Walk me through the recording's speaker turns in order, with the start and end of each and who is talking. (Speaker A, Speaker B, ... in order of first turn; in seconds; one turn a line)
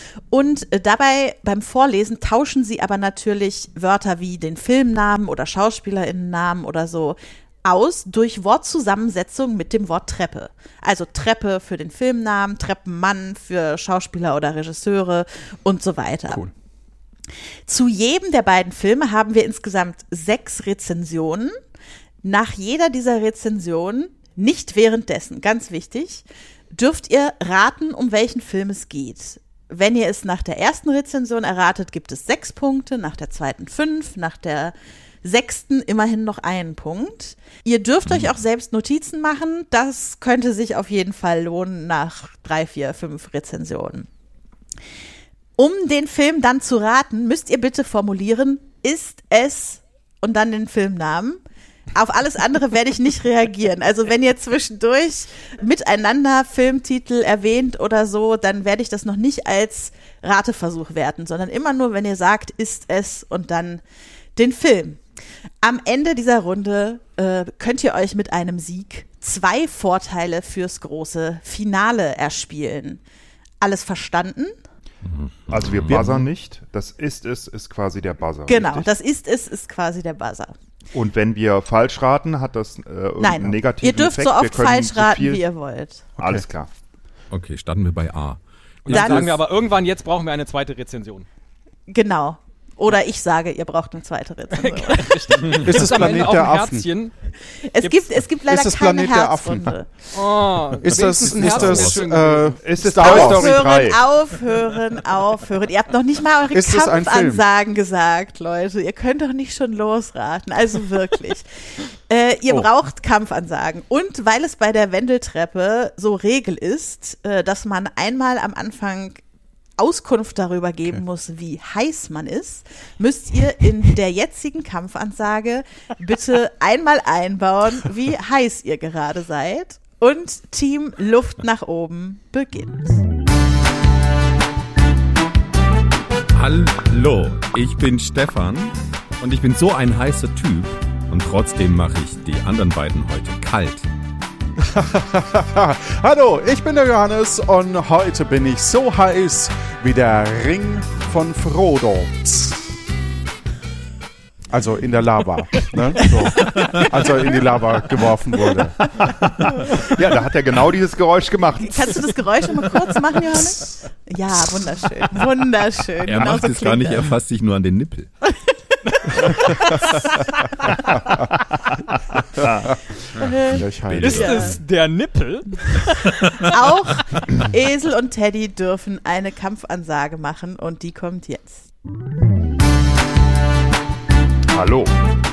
Speaker A: 0.3-16.4
Speaker A: 17.7-21.5
Speaker A: 22.2-44.1
Speaker A: 45.6-51.4
Speaker A: 51.9-63.8
Speaker A: 64.3-65.0
Speaker A: 65.6-73.0
Speaker A: 73.6-74.5
Speaker B: 75.0-76.2
Speaker C: 75.5-78.9
Speaker D: 75.8-76.3
Speaker A: 78.5-80.5
Speaker C: 80.9-85.4
Speaker A: 83.2-86.0
Speaker D: 86.2-86.5
Speaker C: 86.2-86.7
Speaker B: 87.3-89.3
Speaker E: 88.8-91.2
Speaker A: 88.9-89.3
Speaker A: 91.9-95.6
Speaker E: 94.5-97.1
Speaker D: 95.6-96.9
Speaker A: 97.6-99.9
Speaker D: 98.5-99.8
Speaker E: 100.1-102.6
Speaker D: 100.8-103.6
Speaker B: 101.2-101.9
Speaker C: 102.6-104.0
Speaker A: 102.8-111.5
Speaker D: 106.5-107.4
Speaker A: 112.1-119.2
Speaker A: 119.8-133.0
Speaker B: 136.3-143.8
Speaker D: 144.6-152.6
Speaker D: 154.5-158.9
Speaker B: 156.5-156.8
Speaker C: 159.4-162.0
Speaker A: 161.6-167.1
Speaker B: 166.0-168.1
Speaker A: 169.1-170.0
Speaker E: 169.4-169.9
Speaker C: 170.9-171.6
Speaker C: 172.3-172.7
Speaker A: 173.2-174.5
Speaker B: 173.5-174.5
Speaker D: 173.5-174.5
Speaker E: 174.0-175.9
Speaker A: 176.5-181.7
Speaker C: 184.5-185.0